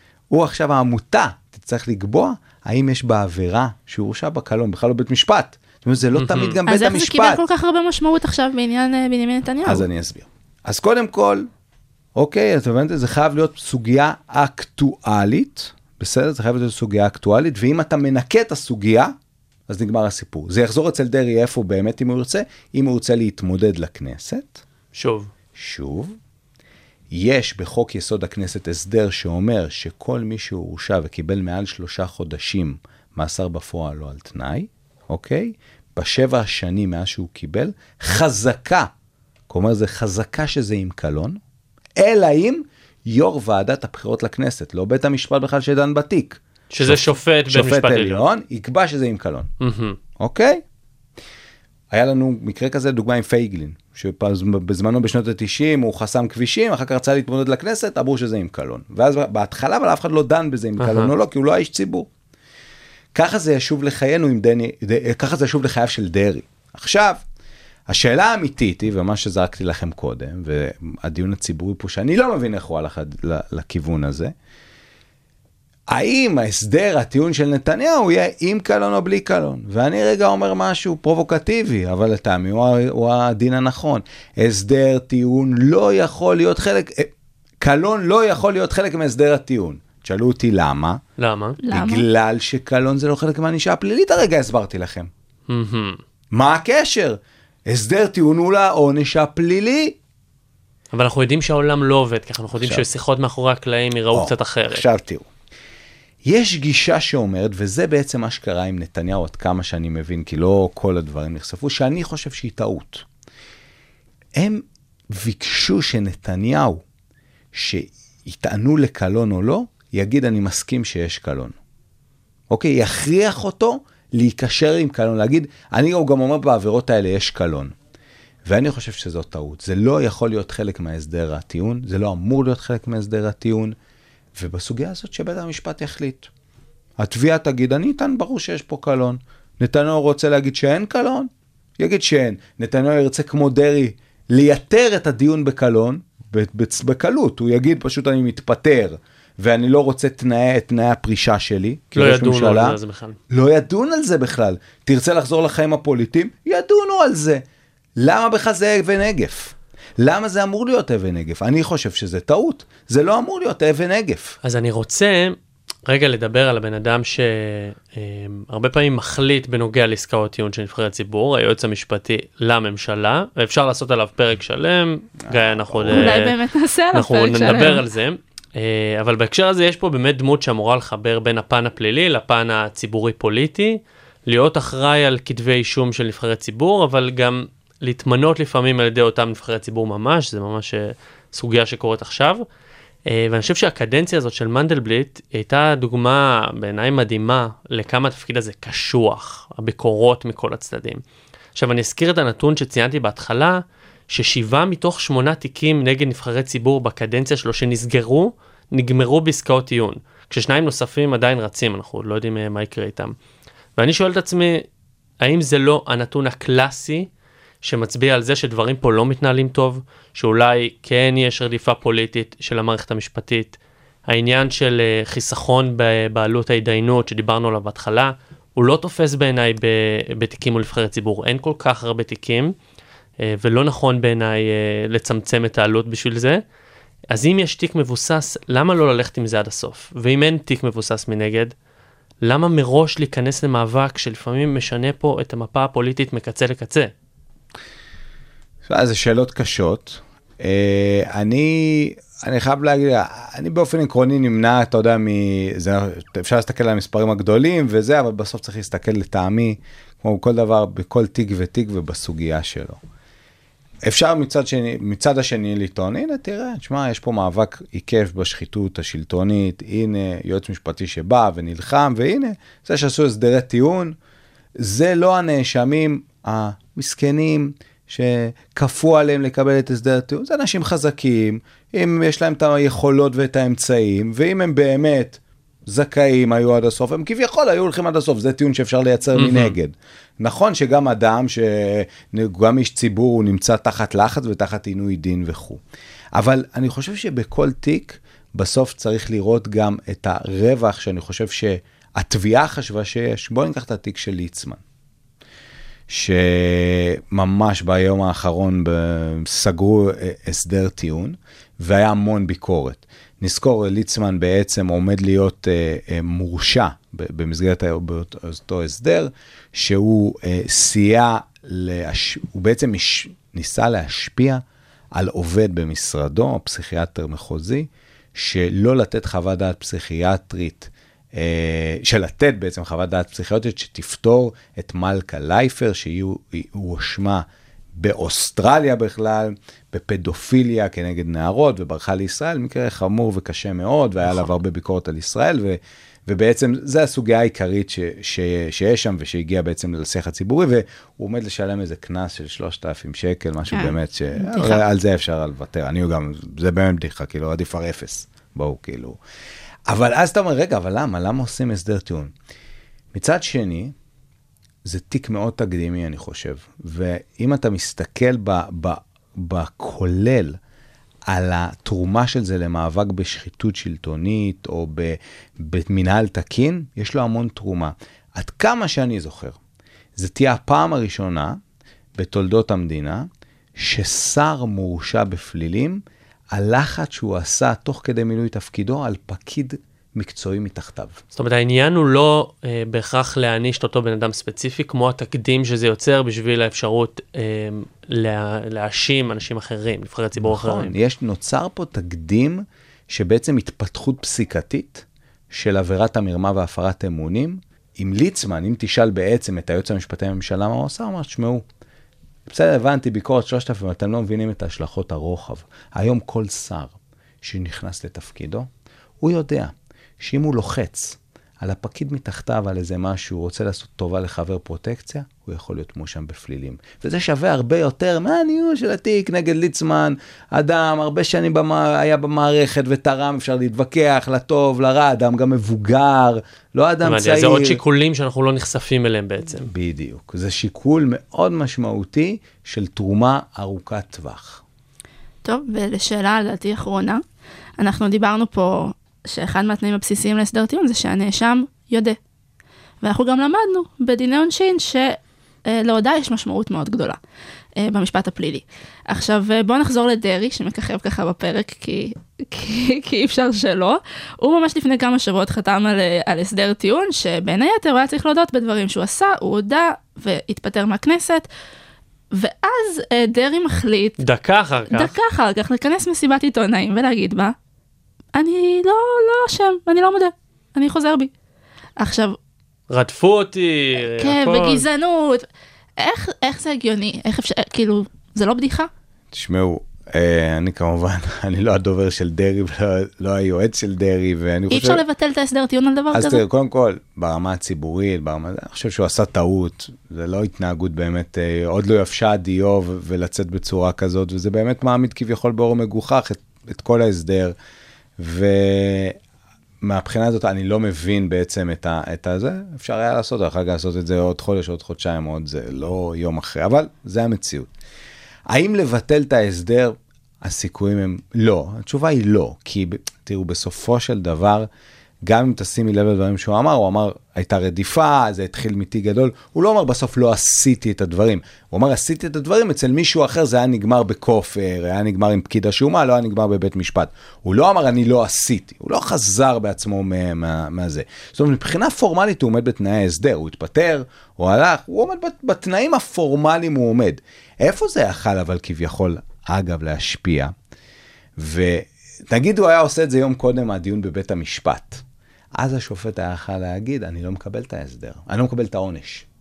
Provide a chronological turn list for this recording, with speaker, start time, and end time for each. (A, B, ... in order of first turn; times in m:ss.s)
0:00.3-0:07.4 A
0:06.2-0:06.6 B
0:06.7-0:09.8 C
0:09.6-0:11.5 A
0:12.2-0:19.1 A
0:19.7-0:24.6 A
0:24.9-0:25.3 B
0:25.6-0:26.2 A
0:27.1-0:38.9 A
0:39.5-0:41.4 A
0:42.0-0:49.5 A
0:46.7-0:48.2 B
0:49.6-0:50.0 B
0:50.2-0:50.6 A
0:51.9-1:02.1 A
1:00.8-1:01.1 B
1:03.1-1:07.2 A
1:07.9-1:14.3 A
1:15.9-1:27.1 A
1:27.6-1:31.0 A
1:31.2-1:31.6 B
1:31.6-1:32.1 C
1:31.7-1:35.1 A
1:35.5-1:36.0 B
1:36.3-1:40.0 A
1:40.9-1:44.9 B
1:42.6-1:42.8 A
1:44.1-1:45.3 A
1:46.2-1:53.1 A
1:54.4-1:56.8 A
1:57.5-2:01.6 A
2:02.5-2:07.7 A
2:08.4-2:13.8 A
2:14.4-2:16.3 A
2:17.0-2:32.8 A
2:32.0-2:33.2 B
2:33.3-2:37.4 A
2:38.0-2:44.4 A
2:44.4-2:56.3 B
2:55.2-2:56.2 A
2:55.9-2:57.8 C
2:56.9-3:12.4 B
3:13.1-3:21.0 B
3:21.6-3:33.2 B
3:33.8-3:34.6 B
3:35.2-3:37.1 B
3:37.6-3:43.6 B
3:44.1-3:52.5 B
3:53.2-3:56.4 B
3:57.1-4:01.5 B
4:02.2-4:06.9 B
4:08.7-4:22.8 A
4:23.8-4:34.0 A
4:34.6-4:55.6 A
4:49.2-4:49.6 B
4:56.2-5:04.6 A
5:05.9-5:24.4 A
5:24.9-5:37.2 A
5:37.8-5:59.0 A
5:53.5-5:54.6 C
5:59.7-6:02.1 A
6:02.9-6:03.7 A
6:04.6-6:10.4 A
6:11.1-6:19.4 A
6:20.0-6:21.4 A
6:22.0-6:31.0 A
6:31.2-6:40.7 B
6:40.2-6:51.4 A
6:52.3-6:58.5 A
6:59.0-7:17.6 A
7:16.8-7:19.5 B
7:19.5-7:24.4 A
7:25.2-7:27.0 C
7:27.6-7:32.0 C
7:32.8-7:37.0 C
7:37.6-7:51.3 C
7:52.1-7:54.0 C
7:54.0-7:54.9 B
7:54.7-7:57.4 C
7:58.2-8:01.1 C
8:01.8-8:02.2 C
8:02.7-8:04.7 B
8:03.8-8:05.3 C
8:05.8-8:08.7 C
8:09.1-8:14.8 A
8:14.5-8:16.2 C
8:15.9-8:27.4 A
8:28.0-8:29.0 A
8:29.6-8:37.5 A
8:38.3-8:44.5 A
8:45.1-9:10.3 A
9:11.2-9:14.8 A
9:15.4-9:19.1 A